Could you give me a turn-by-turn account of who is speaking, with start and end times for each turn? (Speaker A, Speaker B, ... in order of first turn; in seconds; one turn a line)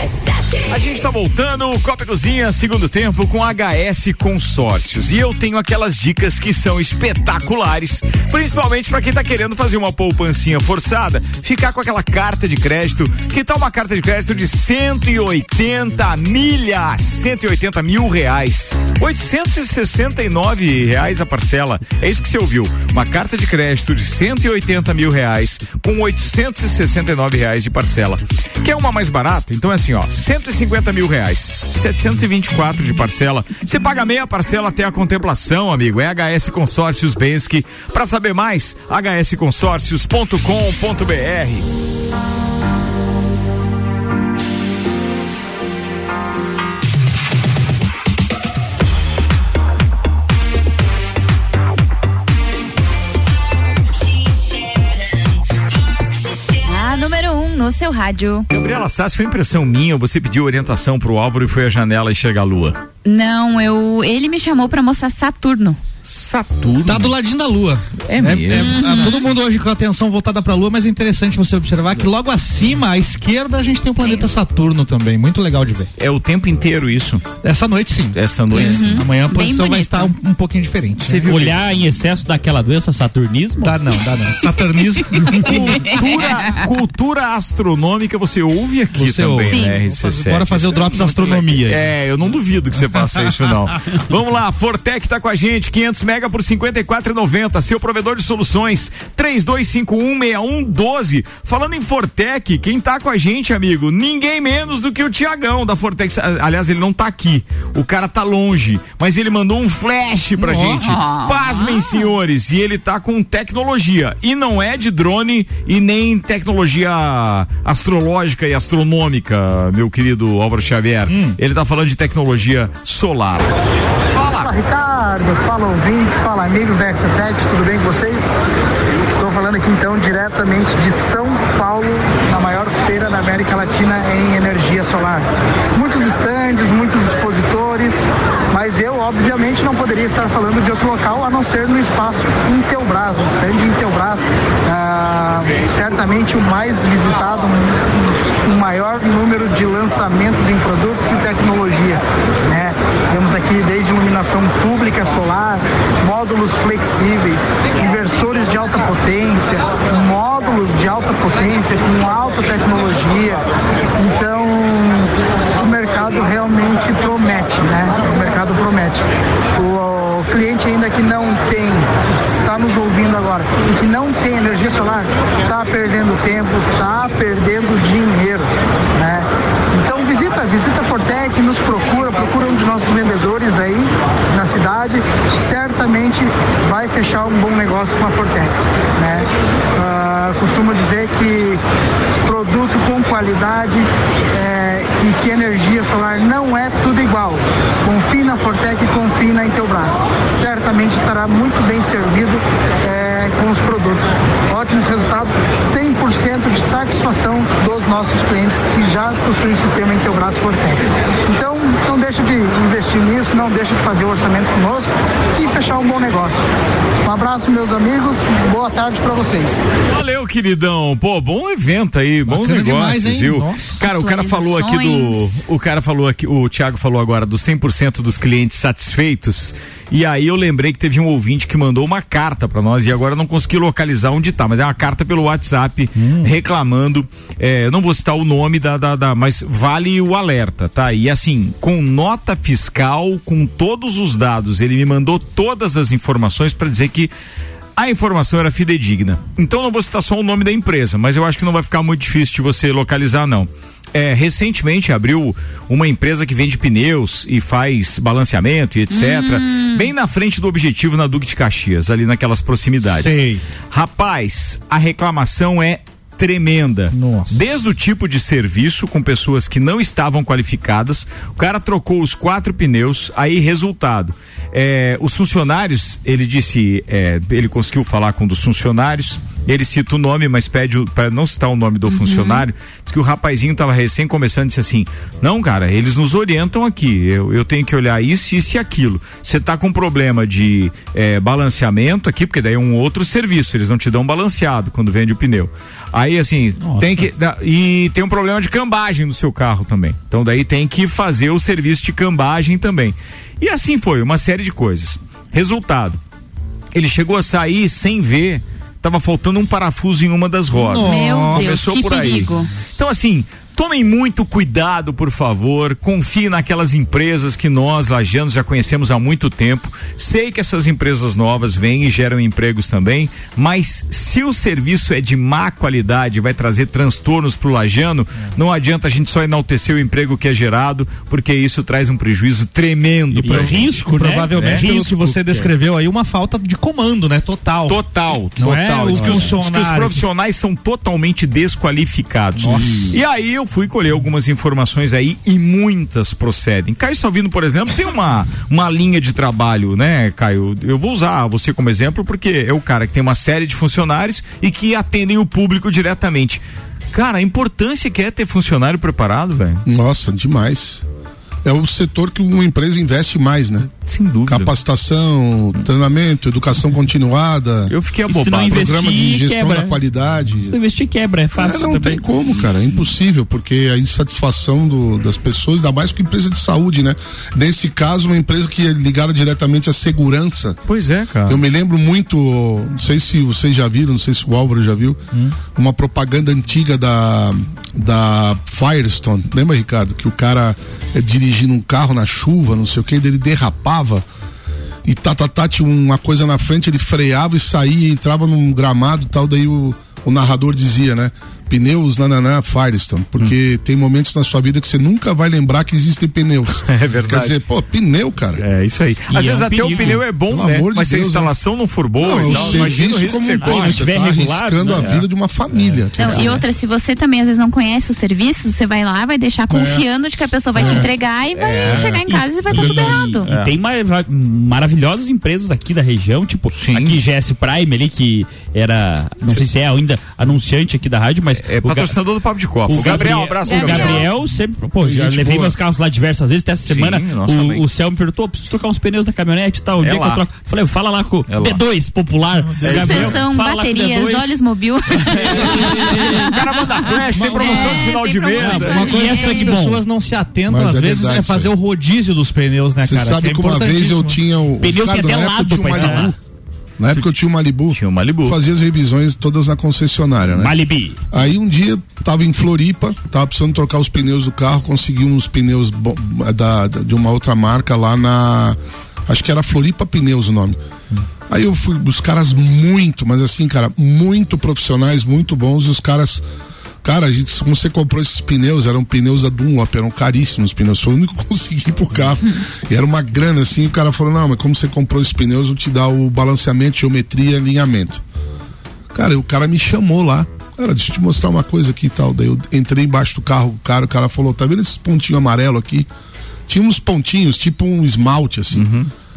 Speaker A: 0.7-41.6
Speaker B: 56.6-58.5
Speaker A: 58.5-62.8
Speaker B: 63.0-65.8
Speaker A: 66.0-67.1
Speaker C: 66.8-75.9
Speaker A: 68.1-69.2
Speaker B: 68.5-69.3
Speaker B: 74.0-74.3
Speaker A: 76.0-77.2
Speaker C: 77.4-81.5
Speaker A: 78.1-79.0
Speaker B: 78.5-80.1
Speaker A: 81.0-81.6
Speaker D: 81.2-83.8
Speaker C: 83.6-85.9
Speaker A: 85.3-123.5
Speaker B: 85.8-86.6
Speaker C: 88.9-91.8
Speaker B: 89.5-89.8
Speaker B: 110.6-112.1
Speaker C: 121.1-121.4
Speaker A: 124.1-124.5
Speaker E: 124.3-128.3
Speaker E: 129.1-163.4
Speaker E: 164.0-191.6
Speaker E: 192.2-216.4
Speaker E: 217.0-219.6
Speaker A: 219.9-247.1
Speaker C: 222.3-223.8
Speaker B: 223.8-225.4
Speaker C: 236.0-236.3
Speaker A: 247.8-306.0
Speaker B: 258.9-259.9
Speaker C: 262.9-263.4
Speaker C: 266.9-267.4
Speaker B: 281.9-282.5
Speaker C: 296.6-296.9
Speaker A: 306.7-333.8
Speaker C: 310.5-311.5
Speaker B: 310.8-312.5
Speaker D: 333.1-335.5
Speaker C: 333.2-337.8
Speaker A: 334.3-334.6
Speaker A: 337.7-359.6
Speaker C: 338.4-340.0
Speaker C: 342.3-343.0
Speaker F: 359.6-360.8
Speaker F: 361.4-363.7
Speaker A: 363.8-364.5
Speaker F: 364.3-367.7
Speaker A: 367.7-368.7
Speaker D: 368.1-369.8
Speaker F: 368.5-370.6
Speaker D: 370.4-372.0
Speaker F: 371.4-380.6
Speaker A: 380.7-381.4
Speaker F: 381.2-385.0
Speaker F: 385.5-394.0
Speaker F: 394.8-408.4
Speaker A: 406.7-407.4
Speaker A: 408.4-413.9
Speaker D: 409.1-410.0
Speaker F: 409.8-411.3
Speaker F: 412.0-416.4
Speaker B: 412.2-412.6
Speaker D: 413.4-415.0
Speaker A: 414.7-415.0
Speaker A: 415.7-416.3
Speaker B: 416.0-423.3
Speaker F: 419.5-419.8
Speaker F: 420.5-420.9
Speaker A: 421.3-422.0
Speaker F: 421.7-421.9
Speaker D: 421.9-431.9
Speaker A: 422.5-423.5
Speaker F: 422.5-422.9
Speaker A: 426.5-427.0
Speaker A: 431.4-434.1
Speaker D: 432.7-444.4
Speaker B: 432.7-434.1
Speaker F: 434.8-435.6
Speaker A: 436.6-437.6
Speaker A: 439.8-440.2
Speaker A: 441.3-441.6
Speaker A: 442.6-443.2
Speaker B: 442.6-449.6
Speaker A: 445.0-449.0
Speaker D: 445.4-446.0
Speaker C: 447.1-454.2
Speaker D: 448.9-449.8
Speaker F: 450.5-451.5
Speaker F: 452.8-456.1
Speaker D: 454.6-456.1
Speaker F: 456.8-460.5
Speaker A: 457.7-458.4
Speaker D: 460.3-461.0
Speaker F: 461.1-470.6
Speaker F: 471.3-476.2
Speaker F: 476.8-488.0
Speaker F: 488.9-495.9
Speaker F: 496.5-498.7
Speaker A: 498.5-498.9